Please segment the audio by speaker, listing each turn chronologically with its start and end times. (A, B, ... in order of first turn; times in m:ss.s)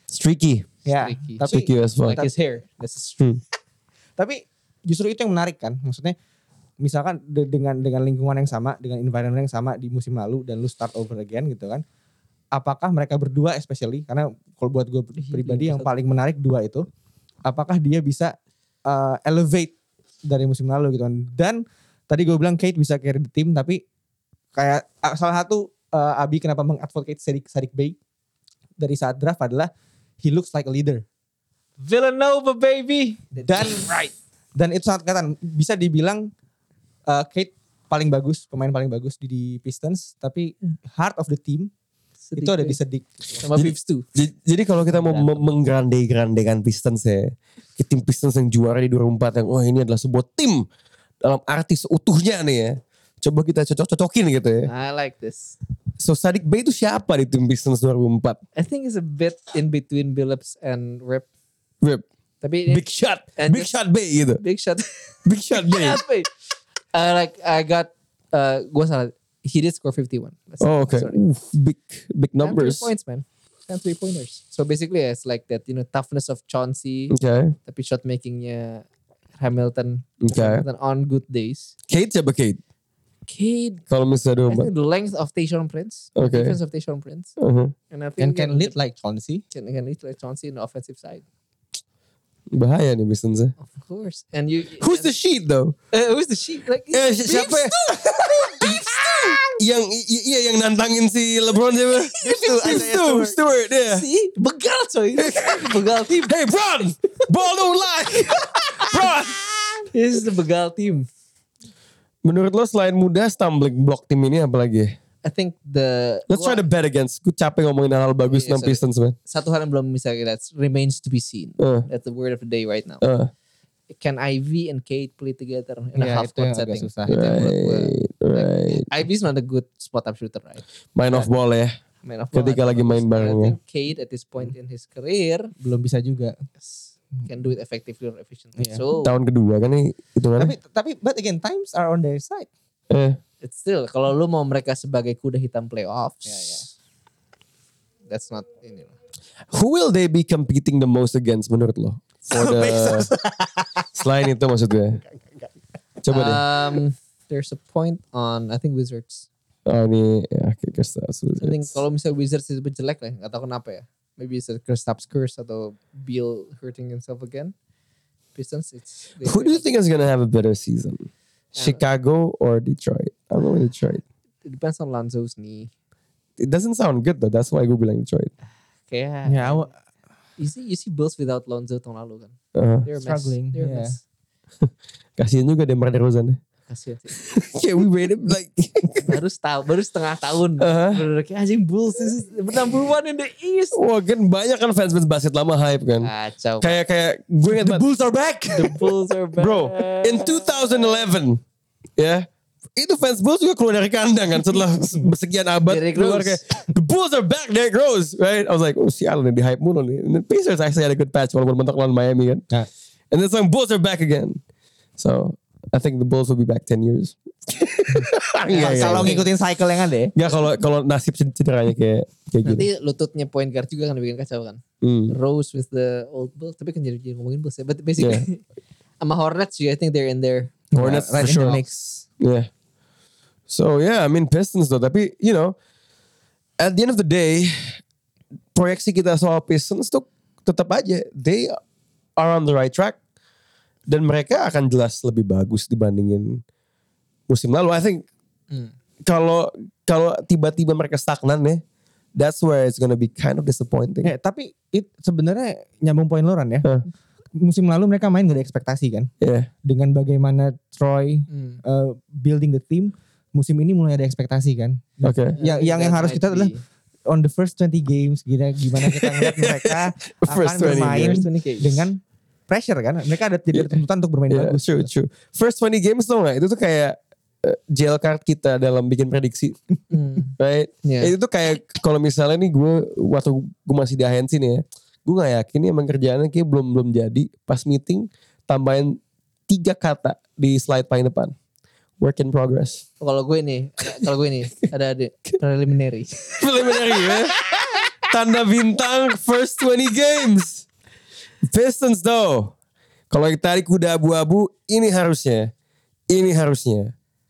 0:00.1-0:00.7 A
0:00.8-0:02.4 B
0:00.9-0:03.3 C
0:01.4-0:02.2 A
0:04.2-0:06.1 B
0:06.8-0:11.8 B
0:12.5-0:16.8 B
0:15.2-0:15.9 C
0:17.4-0:18.3 B
0:18.9-0:19.7 B
0:20.2-0:23.8 B
0:24.5-0:28.0 B
0:28.8-0:29.7 B
0:30.2-0:31.0 B
0:31.8-0:34.1 C
0:33.4-0:33.9 B
0:34.5-0:36.2 B
0:37.1-0:41.7 B
0:42.3-0:42.8 C
0:42.4-0:43.4 B
0:43.4-0:44.1 C
0:43.5-0:50.6 A
0:44.8-0:45.5 C
0:51.2-0:54.7 A
0:54.6-0:55.6 C
0:56.0-0:58.4 A
0:58.6-1:01.3 C
1:02.4-1:03.8 C
1:02.7-1:04.4 A
1:04.3-1:06.3 C
1:05.2-1:06.0 A
1:06.9-1:11.2 C
1:10.6-1:12.9 A
1:12.4-1:18.8 C
1:17.1-1:17.5 A
1:19.4-1:21.7 C
1:20.2-1:20.6 A
1:21.9-1:22.6 A
1:23.3-1:23.8 C
1:23.9-1:24.7 A
1:24.5-1:27.3 C
1:26.1-1:26.6 A
1:27.4-1:27.7 A
1:27.9-1:28.7 C
1:28.2-1:29.4 B
1:29.5-1:31.2 C
1:32.5-1:33.5 A
1:33.6-1:35.1 C
1:34.8-1:35.7 A
1:35.9-1:39.4 C
1:36.9-1:44.0 A
1:42.2-1:43.4 B
1:42.2-1:42.8 C
1:43.9-1:46.4 C
1:45.2-1:49.8 A
1:48.8-1:49.1 C
1:49.9-1:51.1 C
1:52.2-1:54.9 A
1:55.2-1:56.7 C
1:56.3-1:59.2 A
1:58.2-2:03.0 C
2:01.6-2:01.9 A
2:03.0-2:03.3 A
2:03.9-2:11.3 C
2:05.9-2:07.2 B
2:07.1-2:08.9 A
2:10.9-2:11.7 A
2:12.0-2:15.5 C
2:12.3-2:13.6 A
2:15.6-2:16.3 B
2:16.6-2:19.1 C
2:18.6-2:18.8 B
2:19.0-2:20.5 A
2:20.4-2:22.5 B
2:22.9-2:23.2 A
2:23.4-2:26.7 C
2:26.2-2:26.6 B
2:28.1-2:28.9 C
2:29.5-2:33.1 A
2:32.3-2:33.8 B
2:34.0-2:35.0 A
2:35.2-2:35.5 B
2:36.0-2:36.4 A
2:36.1-2:39.3 C
2:39.6-2:41.8 A
2:41.4-2:47.5 C
2:48.3-2:49.6 C
2:49.2-2:54.0 A
2:51.5-2:51.8 C
2:54.4-2:55.7 C
2:56.4-2:58.3 A
2:58.9-2:59.7 C
2:59.2-2:59.7 B
3:00.4-3:04.0 C
3:02.5-3:02.9 A
3:03.0-3:04.0 B
3:04.6-3:06.4 A
3:06.7-3:07.1 C
3:07.2-3:09.2 A
3:09.0-3:13.8 C
3:10.6-3:11.0 A
3:13.7-3:17.8 A
3:16.0-3:16.8 C
3:17.5-3:18.8 B
3:18.5-3:20.8 C
3:19.4-3:21.4 A
3:22.0-3:32.4 A
3:25.6-3:26.4 C
3:33.1-3:34.4 A
3:35.0-3:39.2 A
3:38.5-3:39.3 C
3:38.5-3:40.1 B
3:40.1-3:42.7 A
3:42.4-3:48.4 C
3:44.8-3:45.2 A
3:48.0-3:48.2 A
3:49.0-3:50.5 C
3:50.7-3:51.8 B
3:50.7-3:51.6 A
3:51.2-3:52.0 C
3:52.2-3:52.5 A
3:53.5-3:55.5 A
3:56.6-3:57.8 A
3:58.5-4:01.6 A
4:02.2-4:03.0 A
4:03.9-4:06.4 A
4:07.3-4:08.0 A
4:09.0-4:11.6 A
4:12.2-4:14.1 A
4:14.0-4:16.7 B
4:17.4-4:19.1 B
4:19.2-4:19.5 A
4:19.6-4:26.5 B
4:21.3-4:21.6 C
4:25.0-4:25.4 A
4:25.3-4:26.6 C
4:27.1-4:32.0 B
4:28.8-4:31.2 A
4:30.6-4:31.9 C
4:32.5-4:34.9 B
4:33.5-4:39.6 A
4:39.9-4:40.3 C
4:40.4-4:51.3 A
4:40.8-4:41.1 C
4:52.0-4:52.8 A
4:53.0-4:57.1 C
4:56.4-4:57.4 A
4:58.1-5:00.7 A
5:01.4-5:02.5 A
5:03.1-5:05.5 A
5:06.1-5:06.9 A